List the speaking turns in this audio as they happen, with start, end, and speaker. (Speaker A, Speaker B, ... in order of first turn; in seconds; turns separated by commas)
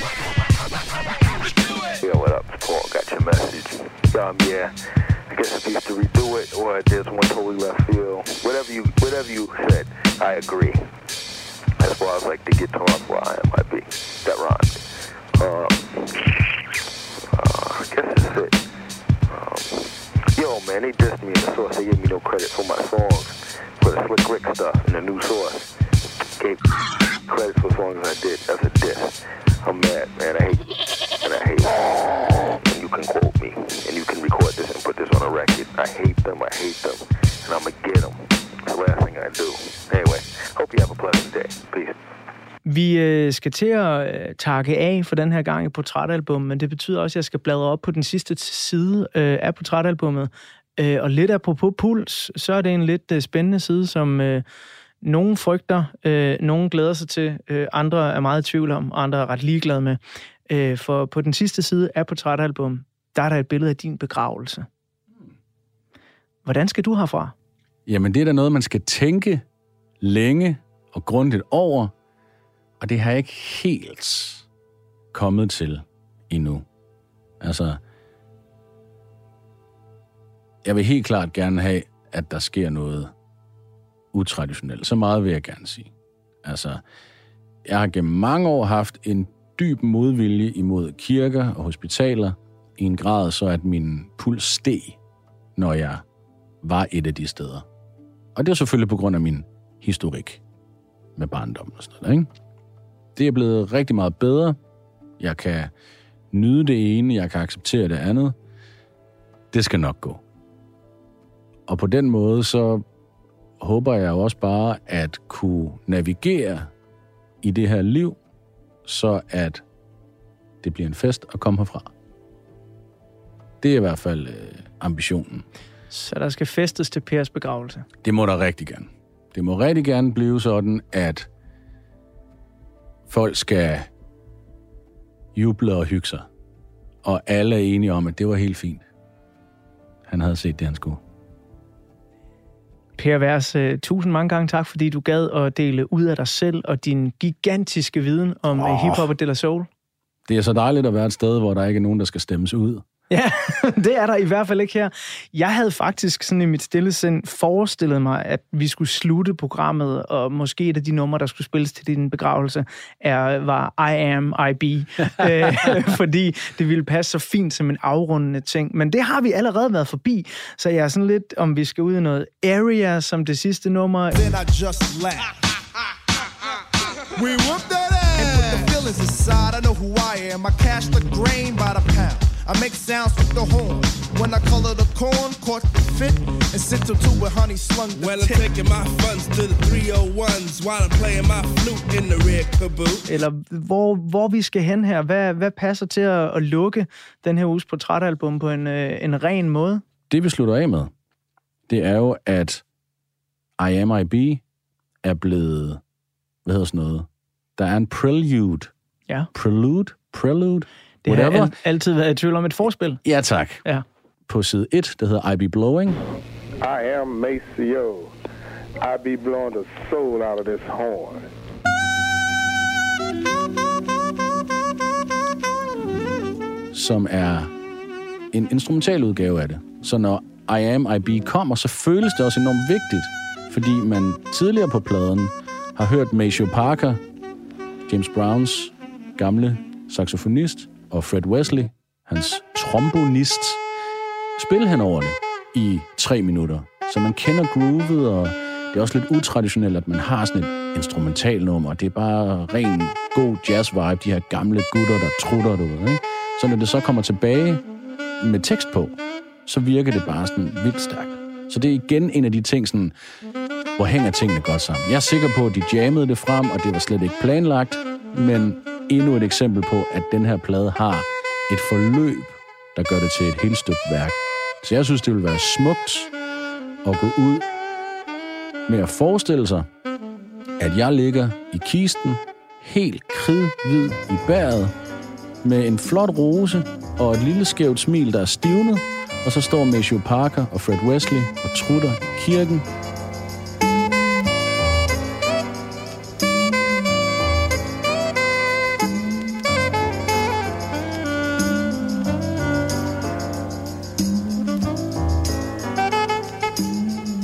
Speaker A: 2.0-4.7, Speaker A: 5.3-10.8, Speaker A: 11.8-14.8, Speaker A: 15.3-16.5, Speaker A: 17.3-18.6, Speaker A: 19.3-25.7, Speaker A: 27.2-41.9, Speaker B: 42.6-54.4, Speaker B: 55.0-64.7, Speaker B: 66.4-67.3, Speaker C: 67.8-69.4, Speaker C: 70.0-71.9, Speaker C: 72.8-74.4, Speaker C: 75.1-76.7, Speaker C: 77.4-77.8, Speaker C: 80.6-83.1, Speaker C: 84.1-85.9, Speaker C: 86.4-86.8, Speaker C: 87.6-95.0, Speaker C: 95.5-96.0, Speaker C: 96.6-97.6, Speaker C: 98.3-100.4, Speaker C: 101.2-102.3, Speaker C: 103.1-104.6, Speaker C: 105.2-105.7, Speaker C: 106.3-108.3, Speaker C: 109.5-110.2, Speaker C: 111.7-112.8, Speaker C: 113.6-116.7, Speaker C: 117.4-118.2, Speaker C: 118.8-119.6, Speaker C: 120.6-121.9, Speaker C: 123.6-125.4, Speaker B: 125.9-127.8, Speaker C: 128.0-131.3, Speaker C: 133.1-133.9, Speaker C: 135.3-136.3, Speaker C: 137.0-138.9, Speaker C: 140.1-141.0, Speaker B: 143.0-149.7, Speaker C: 148.6-149.0, Speaker C: 150.2-152.8, Speaker B: 153.1-174.2, Speaker D: 174.1-175.3, Speaker D: 177.2-188.5, Speaker E: 178.2-178.7, Speaker E: 187.9-193.1, Speaker B: 193.1-199.8, Speaker C: 200.1-200.9, Speaker C: 201.7-202.6, Speaker C: 203.6-204.4, Speaker C: 205.0-205.8, Speaker C: 206.4-208.7, Speaker C: 209.3-211.5, Speaker B: 211.0-213.0, Speaker C: 213.0-213.6, Speaker C: 214.3-216.0, Speaker F: 216.6-217.8, Speaker F: 218.9-221.1, Speaker C: 226.7-227.5, Speaker C: 228.3-237.0, Speaker C: 237.9-243.6, Speaker C: 244.4-257.6, Speaker C: 258.2-262.9, Speaker C: 263.8-276.1, Speaker C: 276.8-277.4, Speaker C: 278.7-279.7, Speaker C: 280.6-284.7, Speaker C: 285.4-292.6